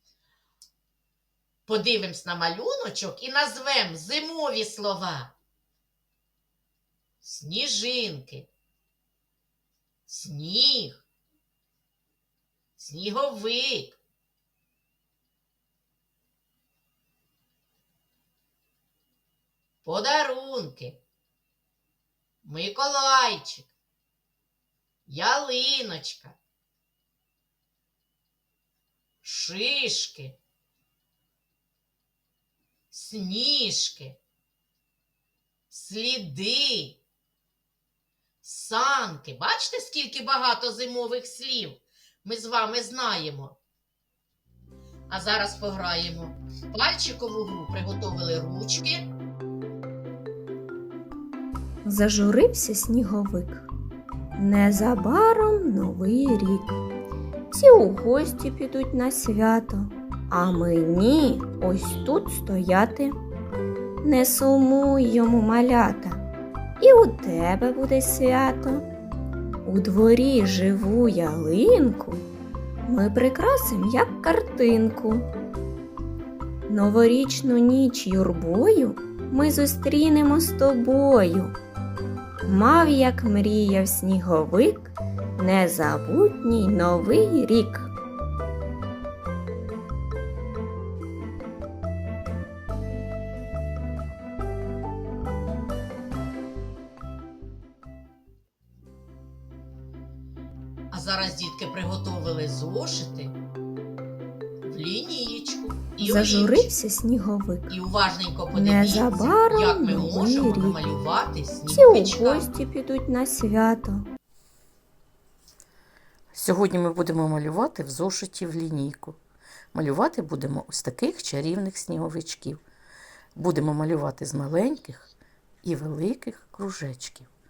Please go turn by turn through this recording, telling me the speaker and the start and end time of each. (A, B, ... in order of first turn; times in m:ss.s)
0:01.6-0:05.3 A
0:07.2-0:08.5 A
0:10.1-0:11.0 A
0:12.8-0:14.0 A
0:19.8-0:21.0 A
0:22.4-0:23.7 A
0:25.0-0:26.4 A
0:29.2-0:30.4 A
0:32.9-0:34.2 A
0:35.7-0:37.0 A
0:38.4-0:43.6 A
0:45.1-0:49.0 A
0:51.8-0:53.7 B
0:54.3-0:56.8 B
0:57.5-1:03.2 B
1:04.0-1:06.2 B
1:06.8-1:08.8 B
1:09.6-1:12.2 B
1:12.8-1:15.2 B
1:16.7-1:21.6 B
1:22.4-1:27.9 B
1:40.9-1:43.4 A
1:44.6-1:46.7 A
1:46.0-1:47.7 B
1:47.7-1:52.5 A
1:48.5-1:50.8 B
1:51.7-1:54.1 B
1:56.3-1:59.2 C
1:59.7-2:02.6 C
2:03.4-2:05.1 C
2:05.6-2:07.3 C